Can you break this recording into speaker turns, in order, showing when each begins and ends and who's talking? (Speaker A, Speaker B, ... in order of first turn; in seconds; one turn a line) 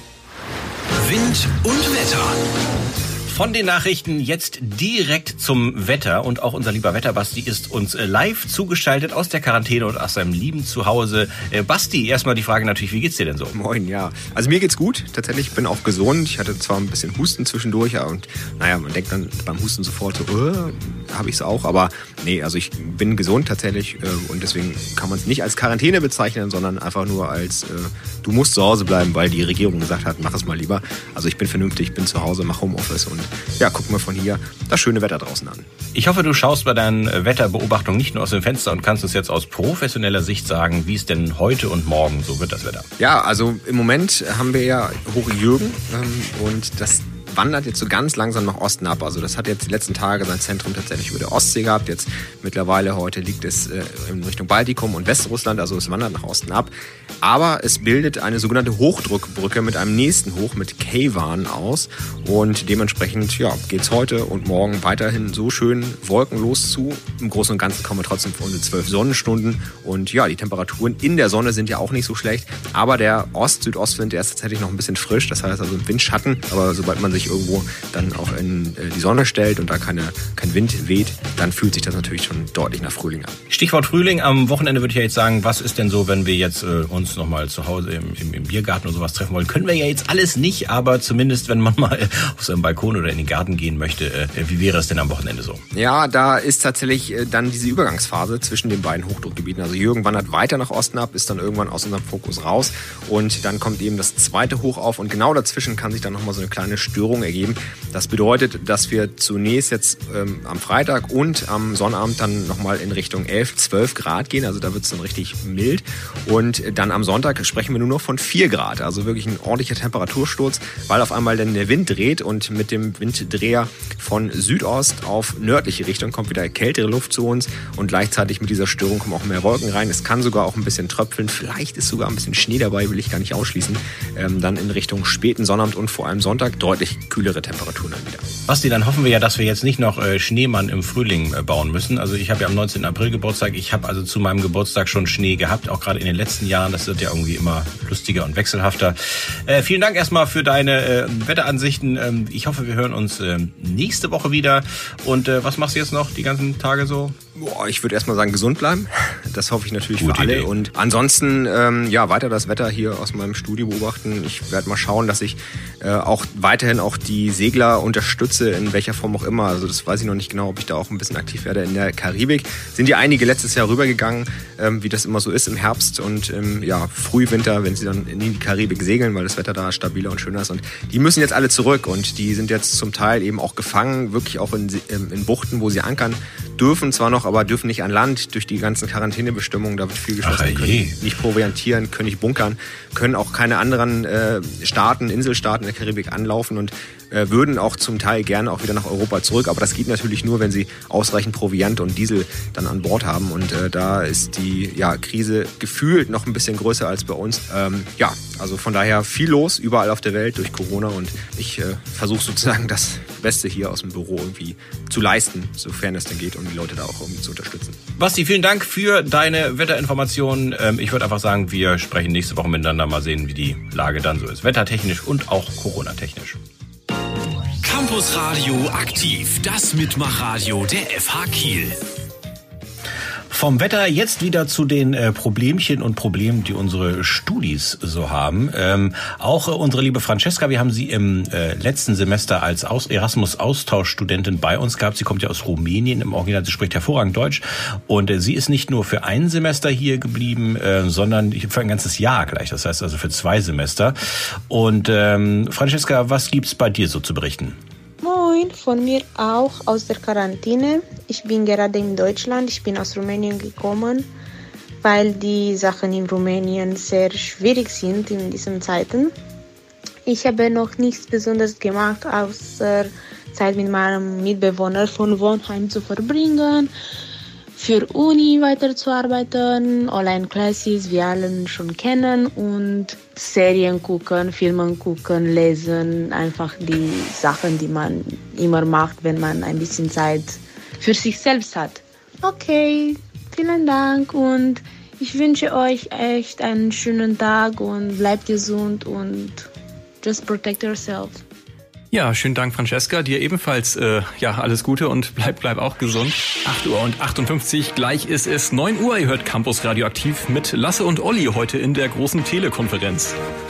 Speaker A: 1.0-2.4
Speaker B: 3.3-13.6
Speaker C: 13.5-35.7
Speaker B: 35.9-42.9
Speaker C: 43.0-83.4
Speaker B: 83.5-95.6
Speaker C: 95.7-138.3
Speaker B: 138.5-157.2
Speaker C: 157.3-217.8
Speaker B: 160.0-160.5
Speaker B: 190.2-191.0
Speaker B: 217.9-226.4
Speaker A: 227.6-231.8
Speaker B: 233.3-254.0
Speaker B: 254.5-257.6
Speaker D: 258.0-264.1
Speaker D: 264.8-269.1
Speaker D: 270.1-276.7
Speaker D: 277.5-299.5
Speaker D: 300.0-301.2
Speaker E: 301.9-313.2